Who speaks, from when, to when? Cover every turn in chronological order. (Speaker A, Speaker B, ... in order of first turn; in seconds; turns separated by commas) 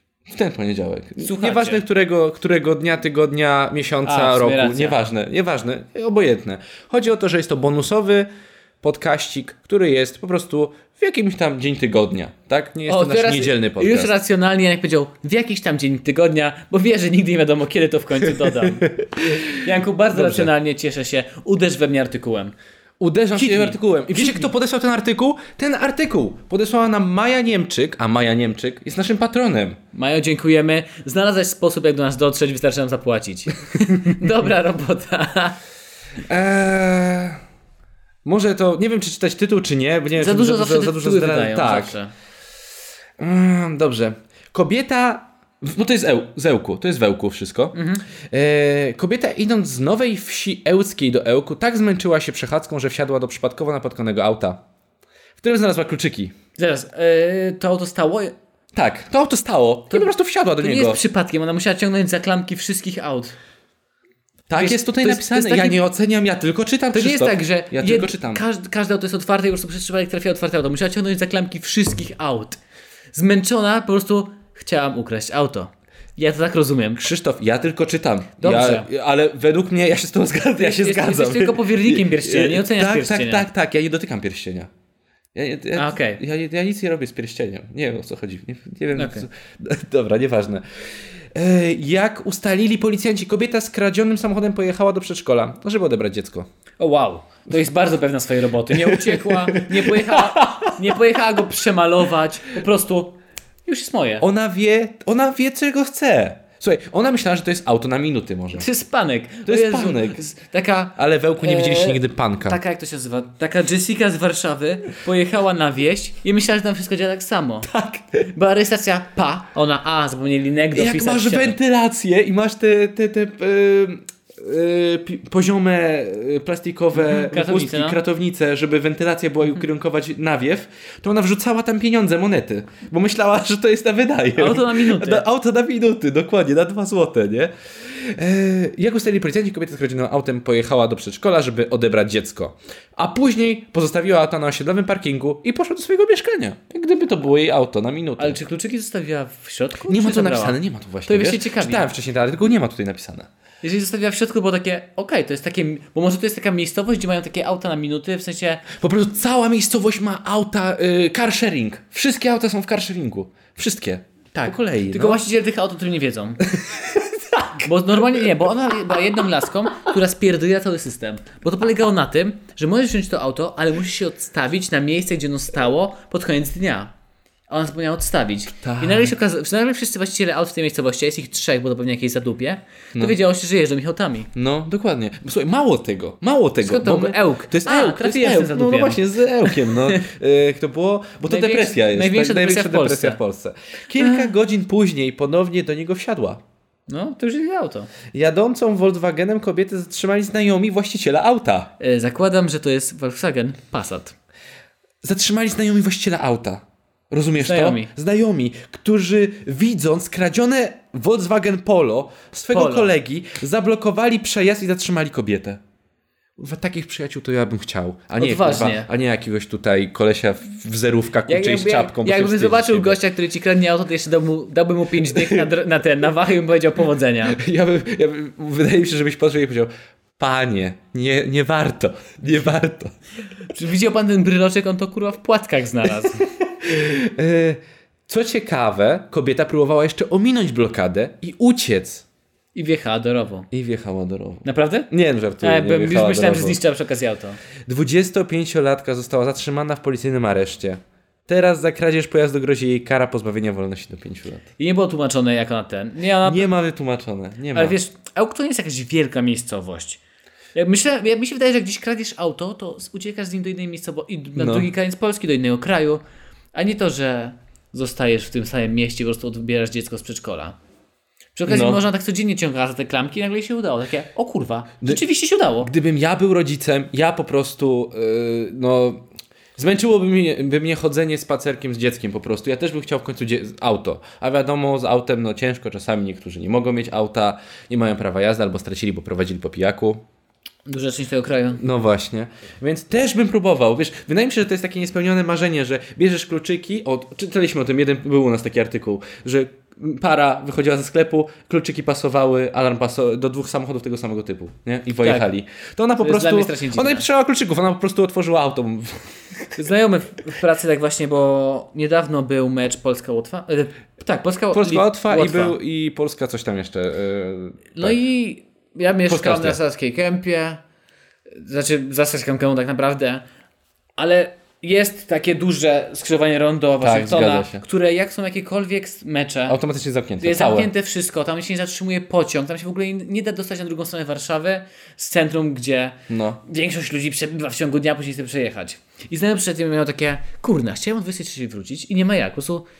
Speaker A: 0.3-8.3, Speaker B: 1.2-1.8, Speaker B: 4.0-5.0, Speaker A: 8.8-14.1, Speaker B: 12.9-22.5, Speaker A: 19.2-19.4, Speaker A: 20.1-20.5, Speaker A: 23.0-29.8, Speaker B: 23.3-24.5, Speaker B: 29.9-35.6, Speaker A: 36.2-37.4, Speaker A: 38.2-42.0, Speaker B: 40.2-42.1, Speaker A: 43.2-47.8, Speaker B: 47.7-48.0, Speaker A: 48.3-54.6, Speaker A: 55.4-56.3, Speaker B: 56.5-58.3, Speaker A: 58.7-61.0, Speaker B: 59.9-63.4, Speaker A: 64.5-68.4, Speaker B: 64.5-65.8, Speaker B: 66.9-72.6, Speaker B: 73.1-77.1, Speaker A: 77.0-84.7, Speaker B: 78.4-78.9, Speaker B: 80.6-83.5, Speaker A: 85.3-90.6, Speaker B: 85.7-86.2, Speaker B: 89.0-89.2, Speaker A: 91.3-96.5, Speaker B: 96.8-104.2, Speaker A: 98.7-101.0, Speaker A: 104.2-108.7, Speaker B: 108.5-121.6, Speaker A: 109.5-110.2, Speaker A: 111.0-112.6, Speaker A: 117.7-118.1, Speaker A: 120.7-148.4, Speaker B: 126.9-128.0, Speaker B: 134.4-135.2, Speaker B: 148.2-151.9, Speaker A: 149.9-153.3, Speaker B: 153.6-158.7, Speaker A: 158.8-165.2, Speaker B: 164.9-166.5, Speaker A: 166.6-167.4, Speaker B: 167.6-176.9, Speaker B: 177.5-184.3, Speaker A: 178.6-179.1, Speaker A: 184.3-196.4, Speaker B: 186.6-190.1, Speaker B: 191.3-193.2, Speaker B: 194.0-194.3, Speaker B: 196.9-197.9, Speaker A: 198.1-201.7, Speaker B: 201.8-204.2, Speaker A: 205.0-215.6, Speaker B: 207.4-207.9, Speaker B: 212.5-212.9, Speaker A: 216.4-223.0, Speaker B: 218.2-218.9, Speaker B: 221.3-227.4, Speaker A: 225.1-225.4, Speaker A: 227.3-232.9, Speaker B: 233.5-236.2, Speaker A: 236.2-242.0, Speaker B: 242.5-243.5, Speaker A: 243.5-246.6, Speaker B: 244.4-244.9, Speaker B: 245.4-247.4, Speaker A: 247.7-254.4, Speaker B: 254.6-256.5, Speaker A: 256.2-257.8, Speaker B: 257.5-260.0, Speaker B: 260.5-266.0, Speaker A: 264.4-264.7, Speaker B: 266.5-270.6, Speaker B: 271.3-275.7, Speaker A: 271.5-271.8, Speaker A: 275.6-290.0, Speaker B: 290.6-291.6, Speaker A: 291.6-309.1, Speaker B: 305.0-305.3, Speaker B: 306.0-307.1, Speaker B: 309.6-315.5, Speaker A: 314.5-318.0, Speaker B: 317.7-320.6, Speaker A: 319.1-319.6, Speaker B: 321.4-323.2, Speaker B: 323.9-329.6, Speaker A: 326.8-327.6, Speaker A: 329.5-330.7, Speaker B: 330.2-342.6, Speaker A: 336.1-336.4